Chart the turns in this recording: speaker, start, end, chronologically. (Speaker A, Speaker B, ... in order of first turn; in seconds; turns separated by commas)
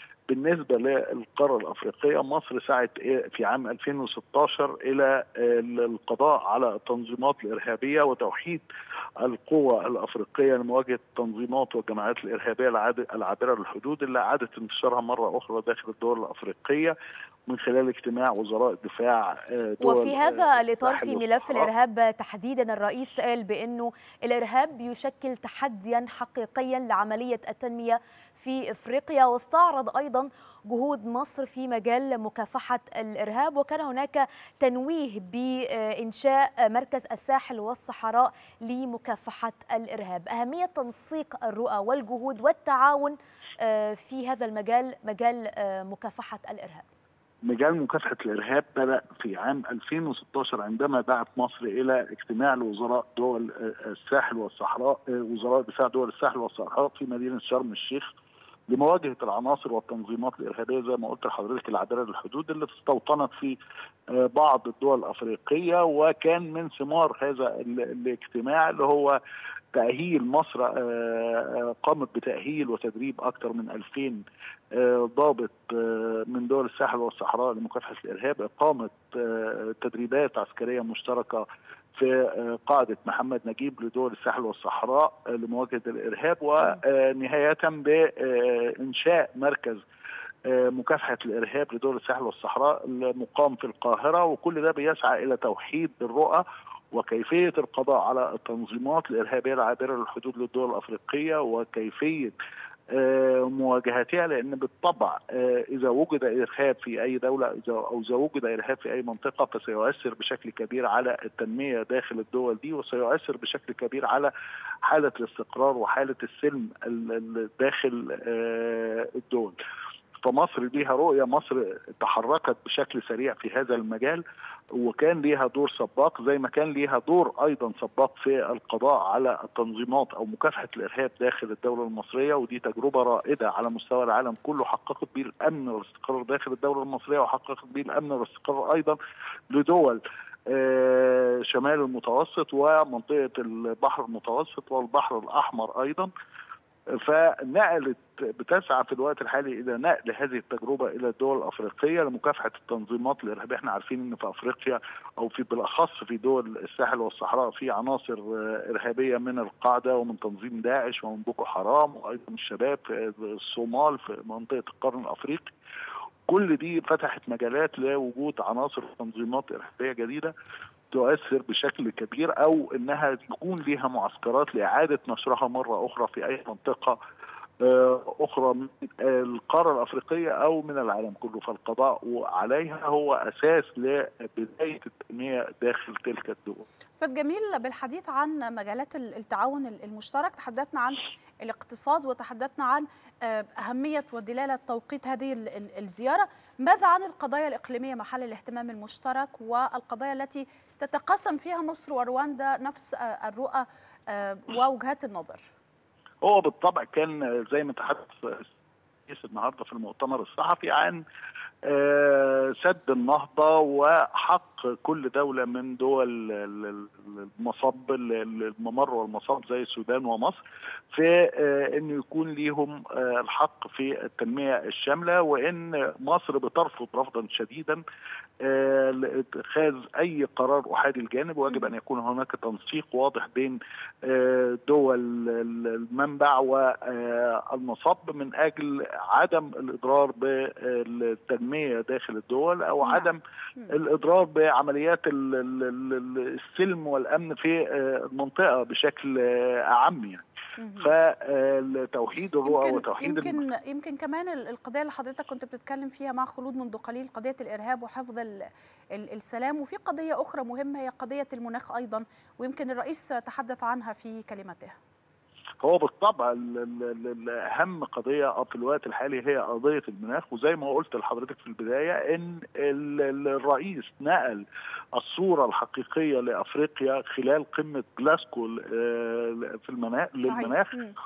Speaker A: 0.3-8.6, Speaker A: 9.2-16.9, Speaker A: 17.5-21.7, Speaker B: 19.8-46.9, Speaker A: 47.5-58.1, Speaker A: 58.7-63.6, Speaker A: 64.1-69.2, Speaker A: 69.7-74.2, Speaker A: 74.7-81.4, Speaker A: 82.0-89.8, Speaker A: 90.5-96.4, Speaker A: 96.9-102.3, Speaker A: 102.9-114.3, Speaker A: 114.8-119.6, Speaker A: 120.2-124.2, Speaker A: 124.8-139.0, Speaker A: 139.5-146.1, Speaker A: 147.0-165.5, Speaker A: 166.3-170.3, Speaker A: 170.9-177.0, Speaker A: 177.6-186.6, Speaker C: 187.0-205.5, Speaker A: 206.2-208.5, Speaker A: 209.1-211.0, Speaker A: 211.7-220.4, Speaker A: 220.9-227.8, Speaker A: 228.4-243.2, Speaker C: 242.8-243.8, Speaker A: 243.7-250.2, Speaker C: 250.6-250.9, Speaker A: 250.8-253.4, Speaker C: 252.4-258.4, Speaker C: 258.9-264.8, Speaker A: 265.6-280.7, Speaker C: 280.2-280.9